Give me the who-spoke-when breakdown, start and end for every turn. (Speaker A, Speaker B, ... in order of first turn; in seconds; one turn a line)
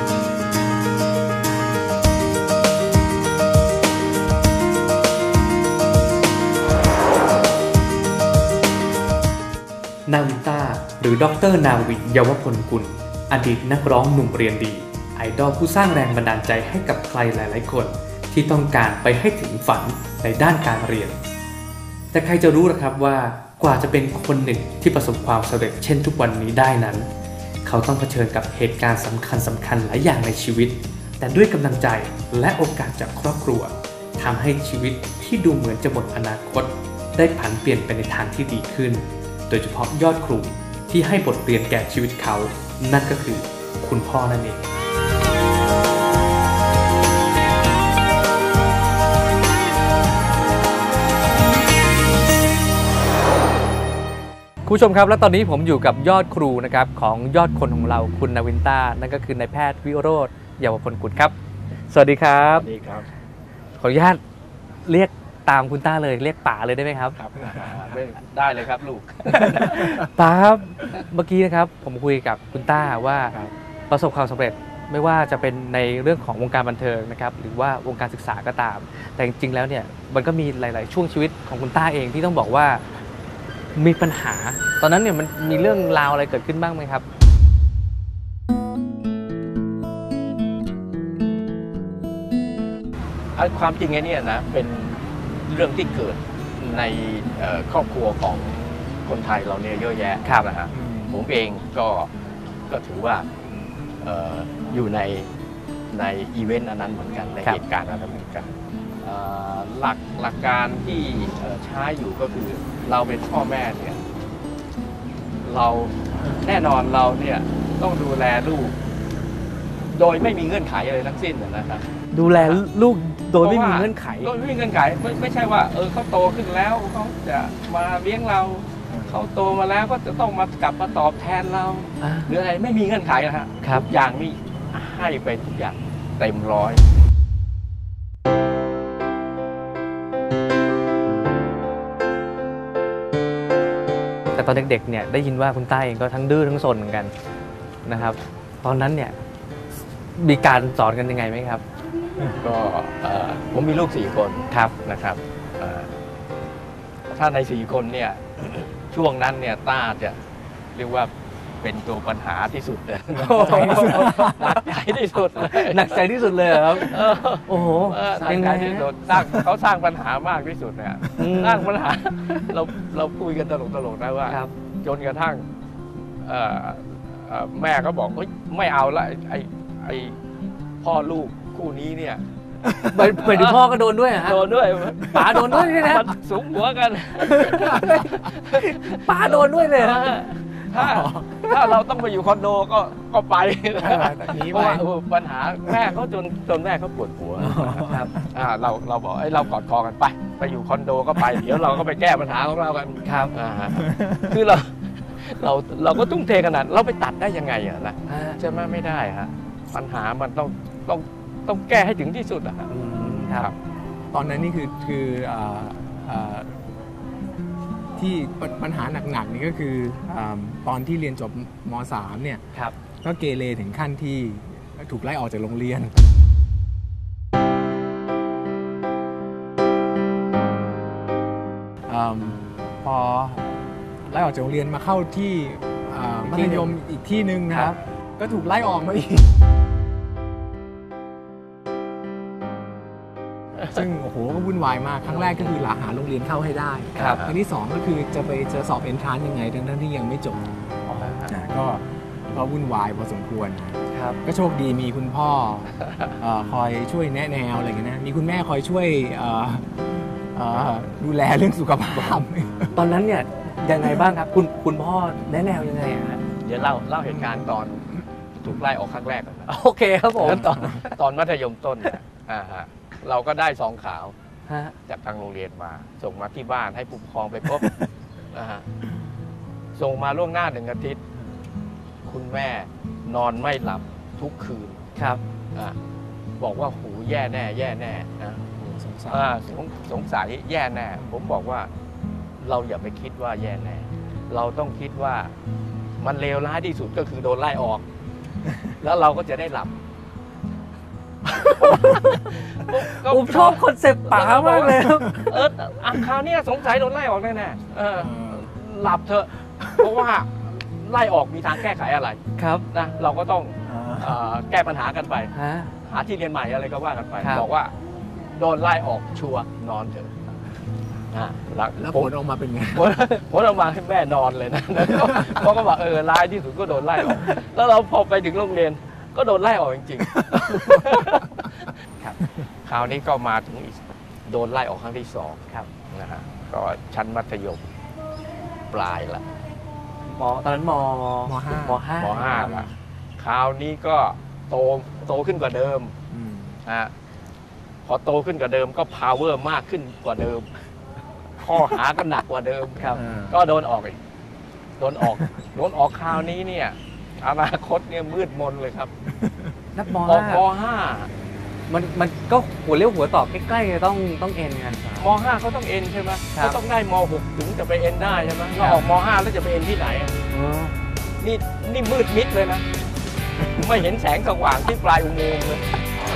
Speaker A: 10.1-21.2
Speaker A: 22.1-27.1
Speaker A: 27.6-44.6
Speaker A: 54.6-61.3
Speaker A: 61.9-62.6
Speaker B: 62.5-63.1
Speaker A: 63.8-64.2
Speaker A: 64.8-67.2
Speaker B: 67.1-70.0
Speaker C: 67.4-67.8
Speaker C: 69.3-70.0
Speaker A: 69.4-73.3
Speaker A: 73.9-82.8
Speaker A: 83.8-87.0
Speaker B: 93.3-102.1
Speaker C: 100.7-101.2
Speaker B: 102.7-103.3
Speaker B: 104.0-105.3
Speaker B: 105.9-114.0
Speaker B: 115.4-118.8
Speaker B: 119.9-122.6
Speaker A: 122.1-124.3
Speaker B: 123.4-136.8
Speaker C: 128.9-129.2
Speaker A: 132.0-132.3
Speaker A: 133.6-133.9
Speaker A: 144.3-147.1
Speaker A: 147.8-149.2
Speaker A: 150.2-151.6
Speaker B: 152.4-155.9
Speaker B: 157.1-160.2
Speaker B: 160.7-175.4
Speaker A: 163.1-164.4
Speaker C: 163.2-164.6
Speaker A: 165.4-169.4
Speaker A: 171.2-171.7
Speaker A: 174.3-174.5
Speaker B: 176.2-180.2
Speaker B: 180.8-182.2
Speaker A: 182.8-186.1
Speaker B: 183.0-213.5
Speaker A: 187.2-190.1
Speaker C: 190.7-191.6
Speaker C: 193.8-194.9
Speaker A: 197.4-198.1
Speaker C: 197.4-198.3
Speaker A: 203.0-203.3
Speaker C: 203.8-204.2
Speaker A: 208.1-208.4
Speaker A: 212.7-213.5
Speaker C: 214.1-216.6
Speaker C: 218.0-222.4
Speaker C: 223.0-225.9
Speaker C: 231.8-233.5
Speaker C: 234.1-239.3
Speaker A: 236.2-236.7
Speaker A: 237.5-237.8
Speaker C: 243.7-262.7
Speaker A: 245.0-245.5
Speaker A: 246.9-247.2
Speaker B: 247.0-247.3
Speaker A: 250.9-251.2
Speaker A: 253.9-254.2
Speaker A: 262.7-266.2
Speaker B: 266.4-269.5
Speaker A: 269.5-271.0
Speaker C: 270.2-270.8
Speaker B: 270.2-274.1
Speaker A: 274.5-274.7
Speaker B: 274.9-278.7
Speaker B: 279.8-281.0
Speaker B: 282.0-284.8
Speaker A: 284.9-285.2
Speaker B: 286.4-291.7
Speaker C: 288.6-289.3
Speaker B: 292.4-295.3
Speaker B: 296.0-297.8
Speaker B: 298.7-299.7
Speaker B: 301.3-315.3
Speaker A: 303.0-305.2
Speaker C: 308.0-308.5
Speaker A: 312.4-312.6
Speaker C: 313.7-314.2
Speaker A: 315.3-315.7
Speaker B: 315.8-317.7
Speaker A: 317.2-317.4
Speaker B: 318.3-320.1
Speaker B: 321.1-322.1
Speaker C: 321.8-322.9
Speaker B: 322.7-331.7
Speaker C: 330.3-330.7
Speaker B: 332.6-337.6
Speaker B: 338.7-339.2
Speaker A: 340.1-342.6
Speaker C: 341.2-342.7
Speaker B: 342.0-345.9
Speaker C: 346.1-346.6
Speaker B: 346.6-346.9
Speaker B: 347.8-350.5
Speaker B: 351.4-354.0
Speaker C: 352.9-353.4
Speaker B: 354.8-358.9
Speaker C: 359.2-359.5
Speaker A: 359.7-360.4
Speaker B: 360.0-361.1
Speaker A: 361.7-365.0
Speaker B: 365.0-370.2
Speaker A: 366.3-366.6
Speaker A: 368.6-368.9
Speaker A: 370.3-370.7
Speaker B: 371.2-372.6
Speaker B: 373.5-375.6